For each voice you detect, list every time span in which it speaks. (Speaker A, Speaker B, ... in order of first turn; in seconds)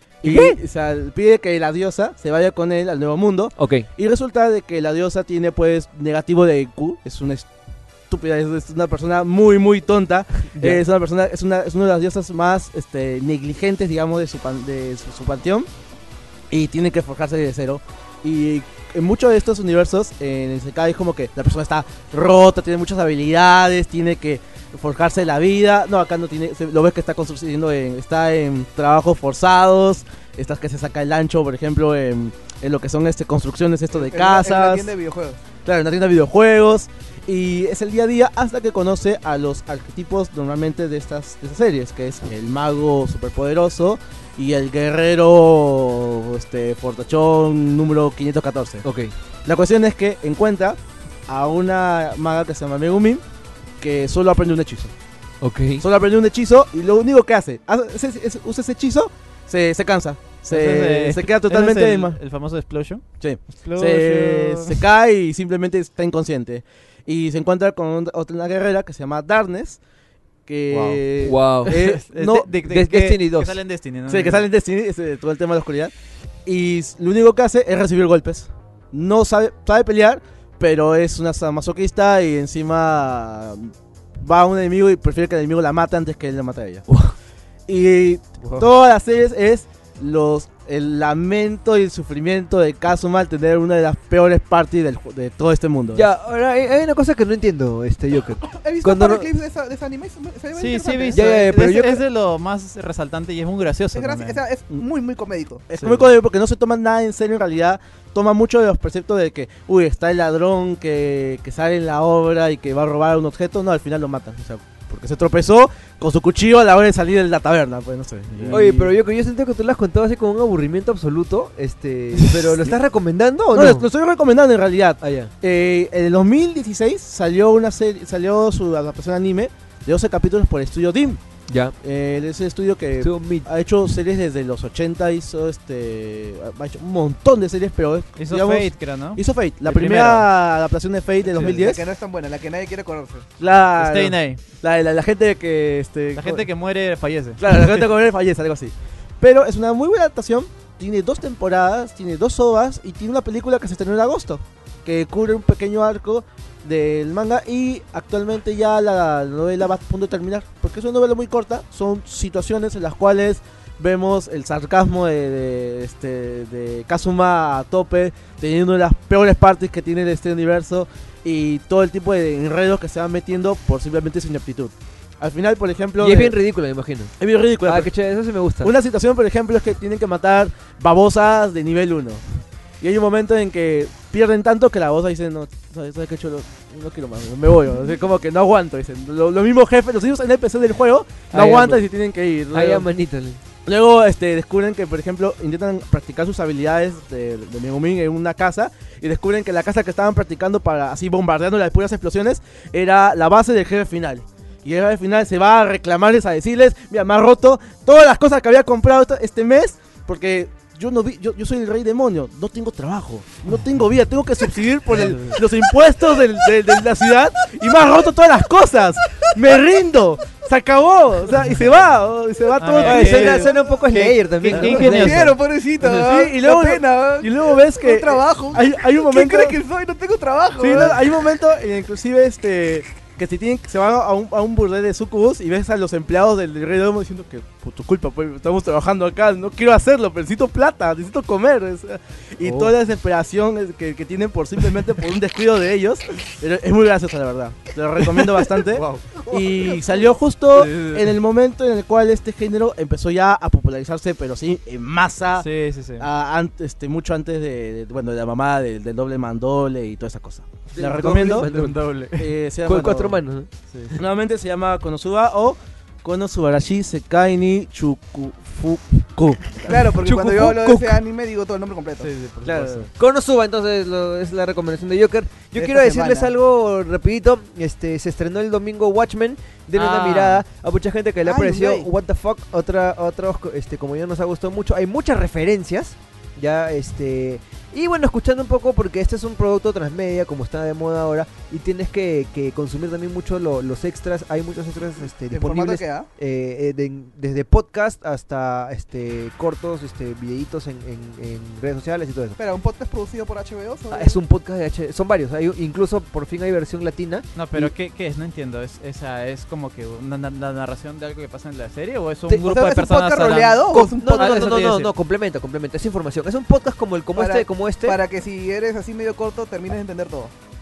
Speaker A: 0.2-7.5, 8.1-15.7, 16.5-34.9, 35.6-48.8, 49.5-53.2, 53.8-54.9, 55.8-62.2, 63.2-69.8, 70.5-72.5, 74.1-75.9, 76.5-86.8, 87.7-96.1, 105.7-118.9, 122.4-122.7, 123.5-131.2, 131.8-141.8, 143.4-146.5, 147.4-176.4, 177.2-177.9, 178.6-182.2, 182.8-192.9, 193.7-223.5, 224.5-224.8, 225.8-229.6, 230.6-255.5, 256.0-261.6, 262.1-263.2, 263.9-270.5, 272.4-272.9
Speaker B: 0.2-0.6, 3.6-3.9, 10.6-10.8, 48.8-49.1, 55.4-55.8, 63.6-64.8, 71.2-71.8, 72.7-73.6, 86.9-87.1, 95.9-99.3, 101.1-102.0, 118.5-123.9, 125.0-125.3, 131.5-131.8, 133.0-133.5, 176.0-178.7, 191.3-191.9, 192.5-193.4, 222.8-225.2, 249.3-249.8, 260.7-261.9, 262.6-263.5, 269.9-270.9, 272.9-302.4, 303.9-307.7, 313.7-318.0
Speaker C: 33.9-35.4, 98.5-101.4, 104.0-105.7, 141.3-143.3, 224.6-231.1, 269.7-272.1, 275.6-276.3, 281.2-281.9, 295.3-296.1, 302.4-304.2, 312.4-314.5, 317.1-320.3
Speaker D: 60.5-63.0, 70.7-71.1, 71.7-74.5, 100.5-104.4, 105.8-106.1, 118.3-118.8, 138.2-140.3, 143.8-144.4, 146.2-147.9, 222.6-225.4, 248.7-249.1, 250.6-251.2, 255.4-256.1, 261.1-262.3, 263.7-264.0, 272.0-272.9, 279.7-280.4, 307.4-314.9